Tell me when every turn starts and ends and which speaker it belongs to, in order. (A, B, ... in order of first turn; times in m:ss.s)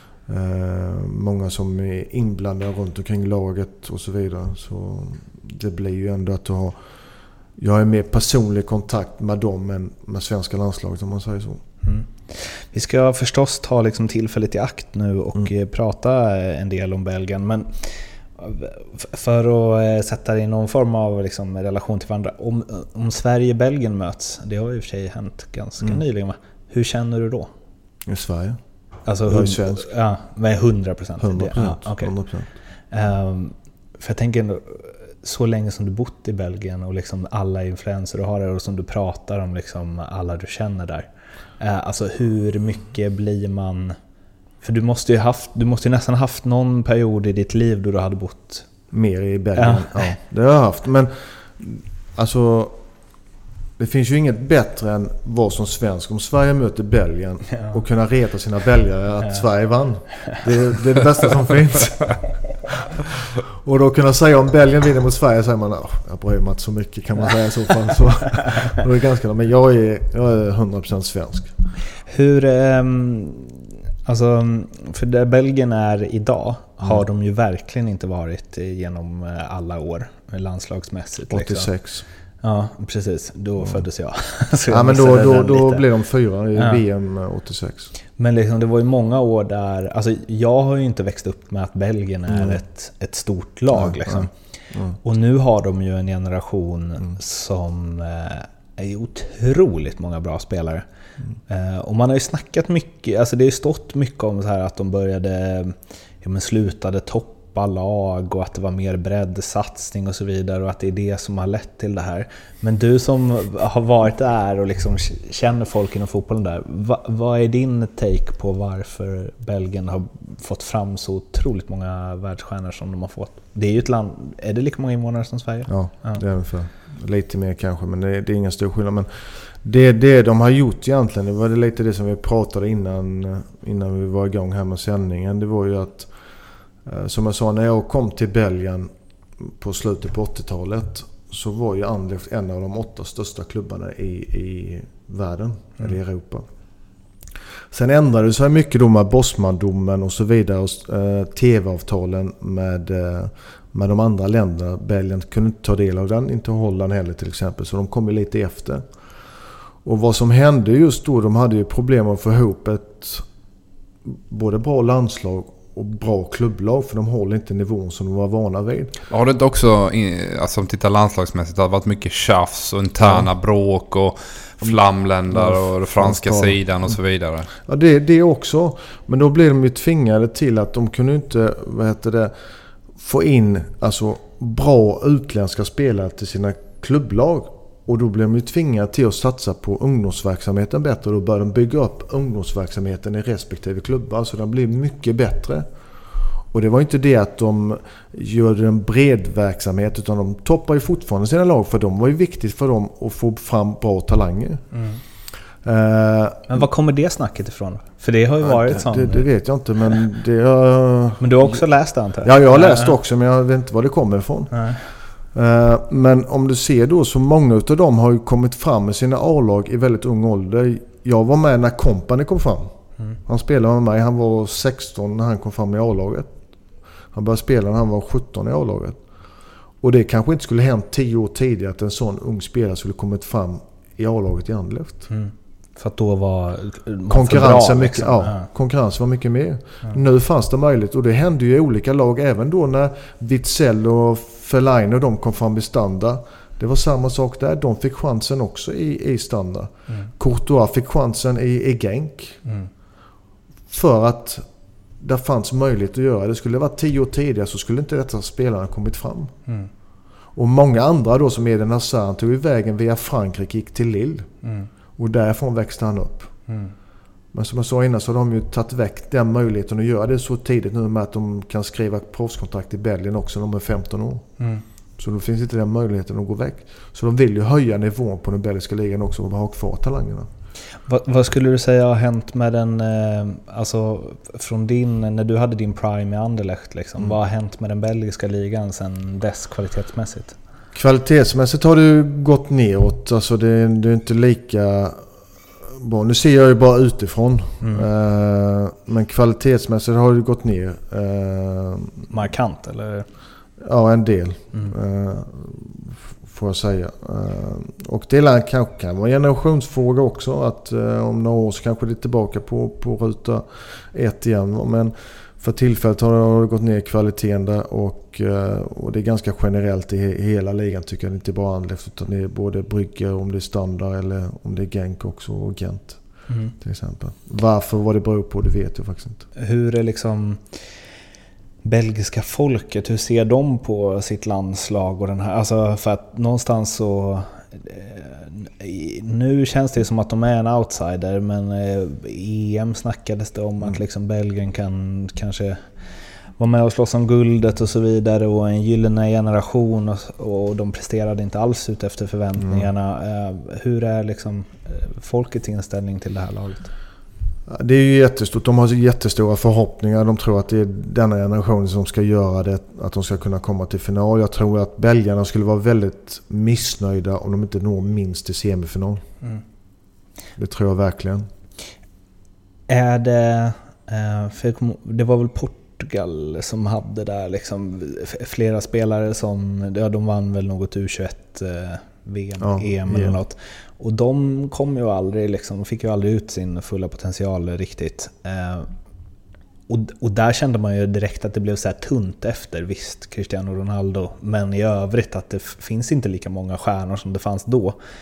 0:00.3-0:06.8 A
0:07.6-0:11.6 A
0:11.8-0:27.5 B
0:28.1-0:28.6 A
0:29.1-0:32.1 B
0:29.3-0:29.9 A
0:31.2-0:32.5 A
0:32.9-0:41.1 B
0:41.6-0:44.0 B
0:44.6-0:48.7 B
0:48.9-0:52.8 A
0:49.6-0:50.1 B
0:53.8-1:02.2 A
0:57.5-0:57.8 B
1:03.6-1:11.5 A
1:12.1-1:21.7 B
1:21.3-1:22.0 A
1:22.4-1:25.9 B
1:24.7-1:27.9 A
1:26.6-1:26.8 B
1:28.2-1:34.3 B
1:32.3-1:32.6 A
1:33.7-1:35.0 A
1:35.0-1:40.8 B
1:41.5-2:06.2 B
2:05.7-2:16.1 A
2:16.8-2:18.9 A
2:19.4-2:26.4 A
2:27.7-2:38.8 A
2:39.8-2:43.2 A
2:44.3-2:49.0 A
2:49.1-2:57.5 C
2:53.0-2:53.3 A
2:55.3-2:56.6 A
2:57.7-3:02.3 A
3:03.0-3:15.7 A
3:16.5-3:24.6 A
3:24.7-3:25.0 B
3:25.6-3:26.6 A
3:26.5-3:29.3 B
3:28.4-3:31.6 A
3:31.2-3:33.0 B
3:32.2-3:42.7 A
3:34.5-3:34.8 B
3:43.3-3:46.3 A
3:47.1-3:49.0 A
3:49.8-3:55.1 A
3:55.1-3:58.5 B
3:57.1-4:12.4 A
4:13.7-4:14.4 A
4:15.0-4:19.3 A
4:20.4-4:24.3 A
4:25.0-4:26.3 A
4:26.5-4:26.7 B
4:27.3-4:34.3 A
4:35.0-4:40.3 A
4:40.9-4:50.3 B
4:50.8-4:55.1 A
4:55.8-5:02.1 A
5:02.1-5:03.1 B
5:03.6-5:26.0 A
5:26.6-5:29.2 A
5:29.4-5:30.4 B
5:31.6-5:45.6 B
5:46.4-5:56.7 B
5:52.4-5:52.7 A
5:57.5-6:09.0 A
6:10.4-6:11.3 A
6:12.7-6:28.7 B
6:22.4-6:23.2 A
6:29.7-6:37.8 B